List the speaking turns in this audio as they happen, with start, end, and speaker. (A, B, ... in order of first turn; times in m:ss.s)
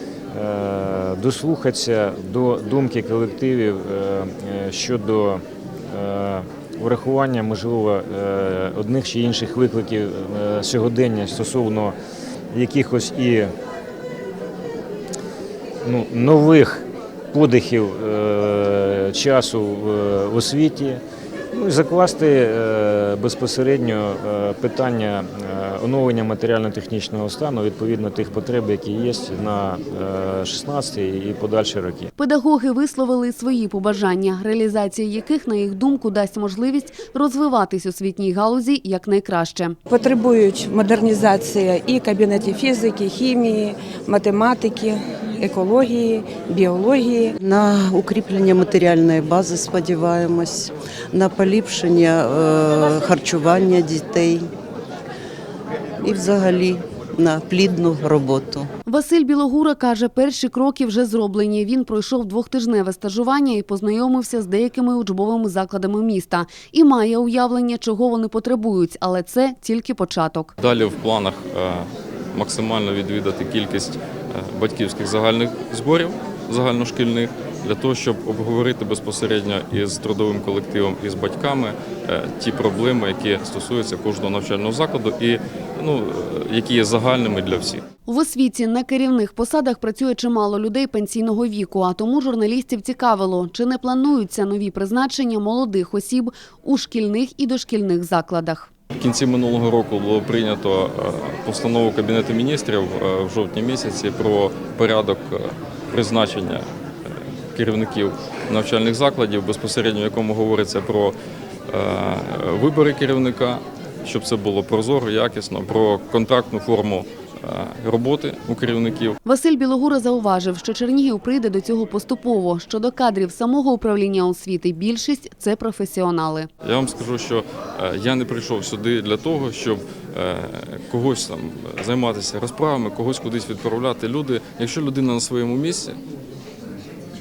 0:00.3-0:12.0 A
0:12.5-0:13.5 A
0:15.8-0:21.0 A
0:21.5-0:32.1 A
0:32.2-0:39.8 B
0:39.9-0:47.3 C
0:47.4-0:54.5 D
0:56.0-0:58.7 D
0:58.9-1:10.5 B
1:10.6-1:27.8 E
1:28.1-1:38.7 B
1:39.0-1:46.7 E
1:47.6-1:51.2 E
1:51.7-1:59.2 E
1:59.2-2:06.5 B
2:06.6-2:16.0 E